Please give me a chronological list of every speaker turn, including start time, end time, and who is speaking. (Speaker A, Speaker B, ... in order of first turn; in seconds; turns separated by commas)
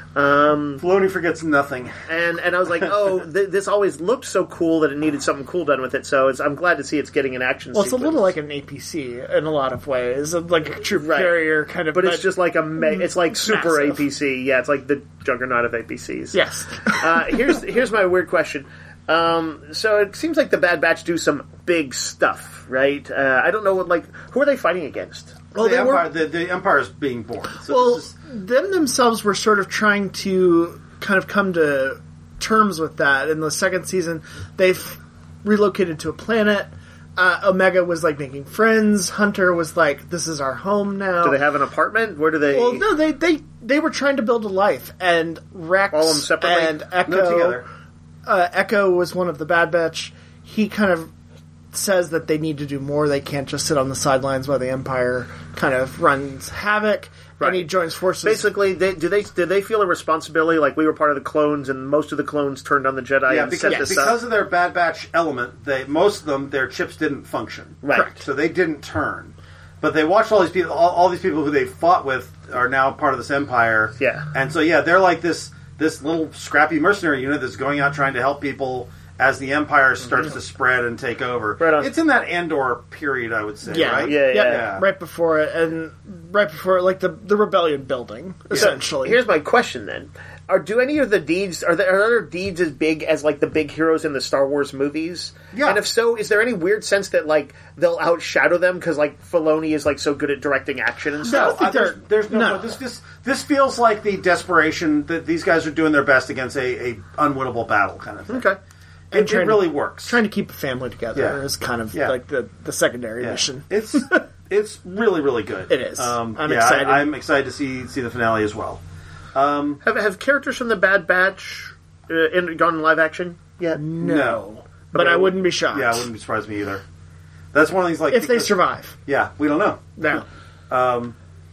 Speaker A: 0.1-0.8, Speaker B: 0.8-2.0, Speaker A: 2.1-8.3, Speaker C: 7.7-14.0, Speaker A: 11.0-16.4, Speaker C: 16.3-17.6, Speaker A: 16.9-25.8, Speaker B: 25.5-28.1, Speaker C: 25.6-26.1, Speaker C: 27.7-41.4, Speaker A: 41.2-42.9, Speaker C: 42.5-47.6, Speaker A: 45.9-46.8, Speaker B: 47.0-47.6, Speaker C: 48.2-51.1, Speaker C: 51.7-58.5, Speaker A: 57.4-57.7, Speaker A: 58.2-64.2, Speaker B: 63.3-84.8, Speaker C: 63.6-64.2, Speaker A: 67.8-68.1, Speaker C: 67.9-68.2, Speaker A: 74.0-74.3, Speaker A: 81.6-81.9, Speaker C: 83.7-89.2, Speaker A: 84.0-84.7, Speaker A: 88.5-101.6, Speaker B: 95.5-95.8, Speaker C: 101.2-102.8, Speaker B: 101.2-108.5, Speaker A: 108.3-108.6, Speaker C: 109.1-114.2, Speaker B: 109.1-110.2, Speaker B: 111.1-111.4, Speaker B: 113.2-118.8, Speaker C: 115.7-117.1, Speaker B: 119.3-119.8, Speaker A: 119.8-123.8, Speaker C: 123.8-126.1, Speaker B: 124.0-124.4, Speaker B: 124.9-126.8, Speaker B: 127.5-131.2, Speaker C: 128.1-128.9, Speaker C: 130.0-130.2